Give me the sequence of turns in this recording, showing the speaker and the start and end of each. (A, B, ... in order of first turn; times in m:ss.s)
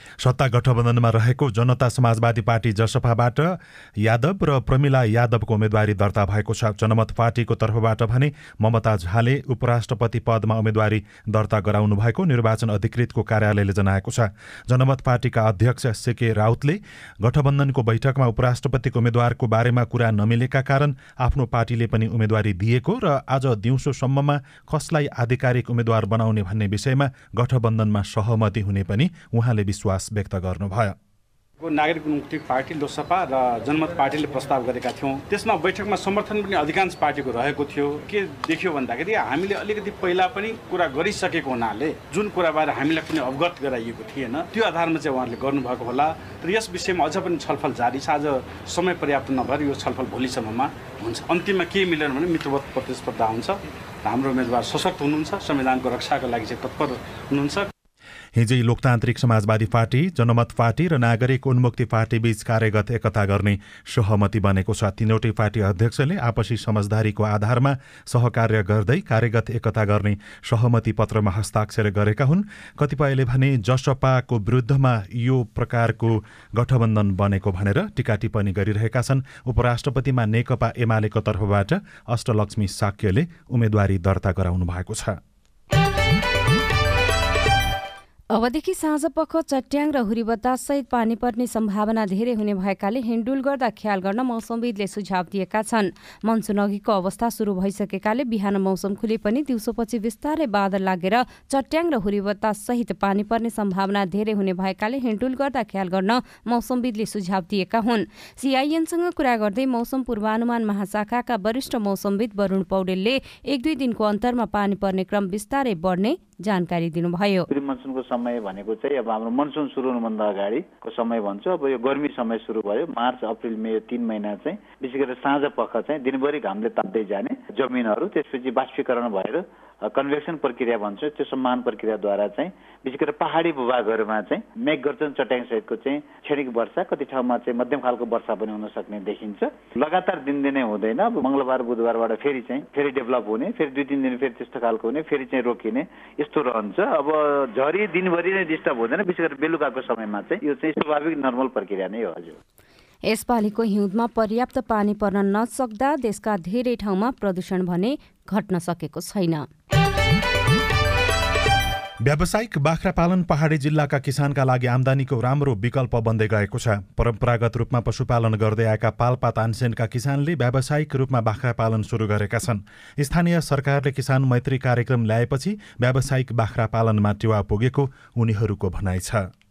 0:00.2-0:30.9 A
0:31.6-0:57.7 B
0:58.3-1:25.2 A
1:28.3-1:57.5 C
1:57.5-2:32.4 D
2:33.1-2:39.4 C
2:42.0-2:59.3 A